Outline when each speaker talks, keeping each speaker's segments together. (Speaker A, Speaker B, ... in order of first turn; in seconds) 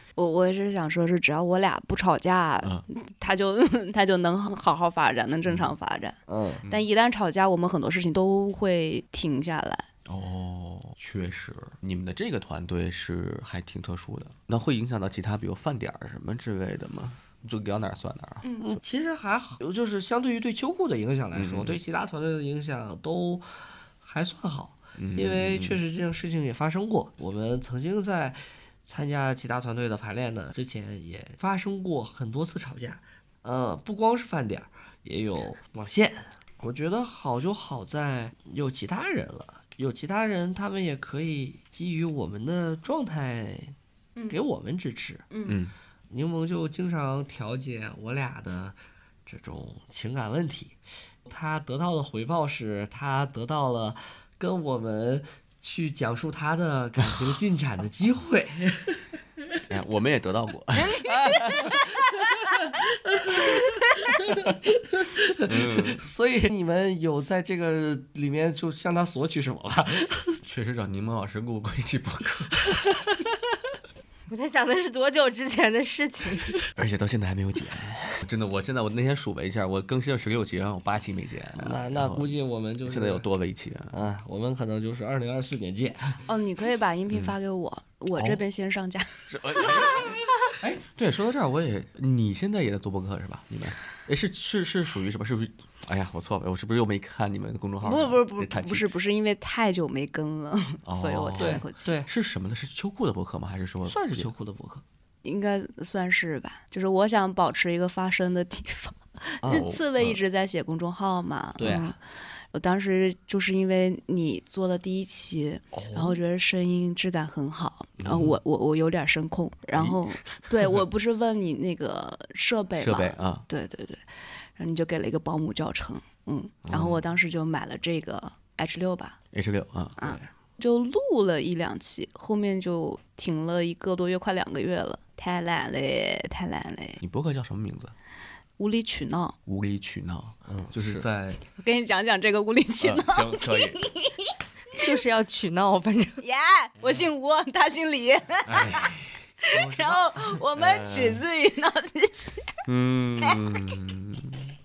Speaker A: 0.1-9.9, 18.4-18.8, 45.3-45.6, 86.3-90.0, 97.8-101.9, 105.2-112.0, 112.5-124.0, 124.6-129.2, 130.0-137.0, 138.6-139.3, 141.6-144.8, 146.2-148.9, 149.5-152.5
Speaker B: 5.5-5.7, 10.1-18.5, 21.3-21.8, 25.0-25.8, 45.5-45.7, 59.7-61.1, 65.4-66.0, 70.4-73.2, 76.7-82.3, 82.8-83.9, 87.1-87.3, 89.3-98.9, 100.8-104.3, 109.5-110.2, 115.7-116.2, 118.0-118.3, 119.7-120.4, 122.8-123.5, 126.7-127.0, 129.3-130.2, 137.0-137.9, 139.4-141.4, 142.8-143.8, 148.4-149.2, 150.5-151.2, 152.7-154.5
Speaker C: 6.3-6.6, 18.6-23.4, 24.0-43.7, 44.3-45.2, 46.1-59.1, 61.0-70.4, 81.5-83.3, 83.9-86.2, 101.4-102.1, 103.8-104.8, 109.4-109.7, 111.6-112.0, 140.5-141.3, 149.5-150.4
Speaker D: 74.3-76.6, 144.8-146.2